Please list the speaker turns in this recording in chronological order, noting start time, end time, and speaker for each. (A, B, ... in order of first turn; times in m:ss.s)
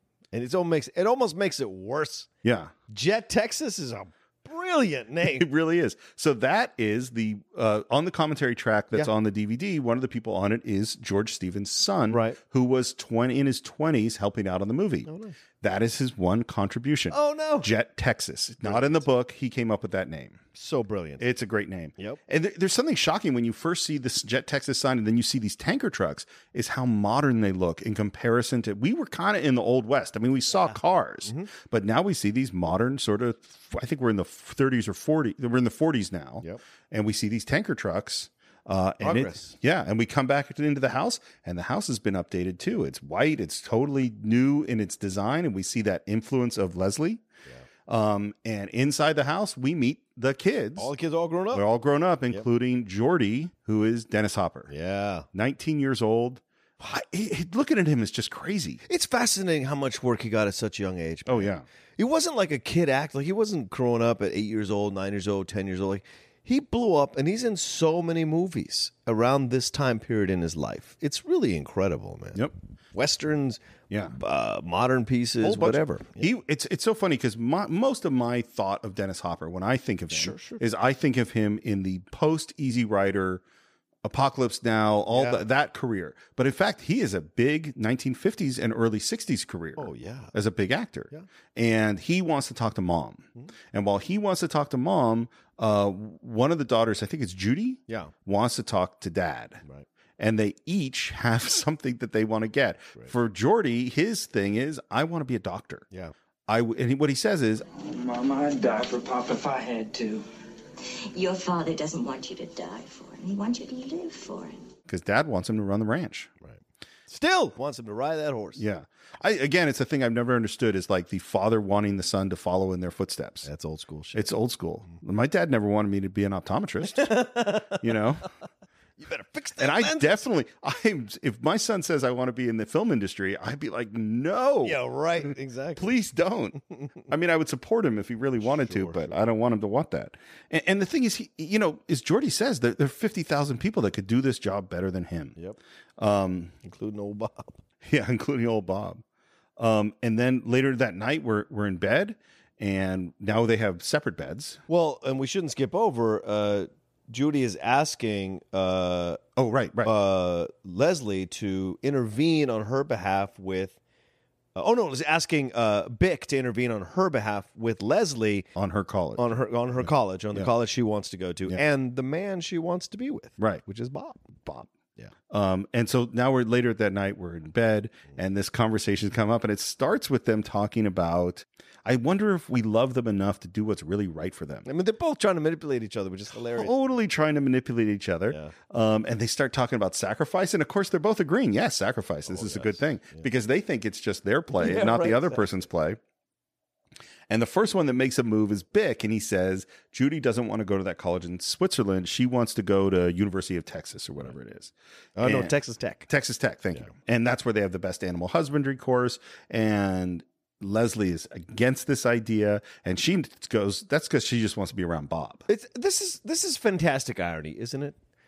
0:00.3-0:02.3 A
0:02.4-0:02.7 B
0:02.9-0:05.5 A
0:05.2-0:15.1 B
0:12.1-0:12.4 A
0:15.0-0:15.4 A
0:15.6-0:20.4 B
0:17.1-0:17.7 A
0:18.6-0:19.0 A
0:20.5-0:21.3 A
0:21.2-0:47.2 B
0:30.5-0:31.5 A
0:39.0-0:39.5 A
0:47.9-0:50.9 B
0:50.8-0:51.6 A
0:51.5-0:54.7 B
0:54.7-0:55.3 A
0:55.3-0:58.8 B
0:58.8-1:13.6 A
1:01.3-1:01.6 B
1:14.1-1:16.3 A
1:15.4-1:23.4 B
1:20.1-1:20.6 A
1:24.0-1:39.6 B
1:25.1-1:25.4 A
1:29.8-1:30.3 A
1:40.2-1:45.8 B
1:46.5-1:47.6 B
1:47.8-1:50.2 C
1:51.1-1:54.6 D
1:54.9-1:56.3 B
1:56.4-1:58.6 A
1:58.6-2:03.5 B
2:03.4-2:04.3 A
2:04.1-2:08.2 B
2:06.9-2:08.0 A
2:09.0-2:10.3 A
2:09.6-2:14.8 B
2:14.6-2:16.0 A
2:15.8-2:25.4 B
2:18.4-2:19.2 A
2:26.0-2:26.5 B
2:26.6-2:27.6 A
2:27.8-2:29.0 B
2:29.6-2:34.6 B
2:34.7-2:39.2 A
2:39.4-2:39.9 B
2:39.8-2:43.8 A
2:44.6-2:48.5 A
2:48.6-2:49.4 B
2:49.2-2:54.3 A
2:54.4-2:54.7 B
2:55.3-3:04.7 B
3:04.6-3:06.7 A
3:06.5-3:16.0 B
3:12.3-3:13.3 A
3:14.5-3:15.4 A
3:17.3-3:25.5 B
3:25.2-3:26.1 A
3:26.1-3:35.4 B
3:35.5-3:38.0 A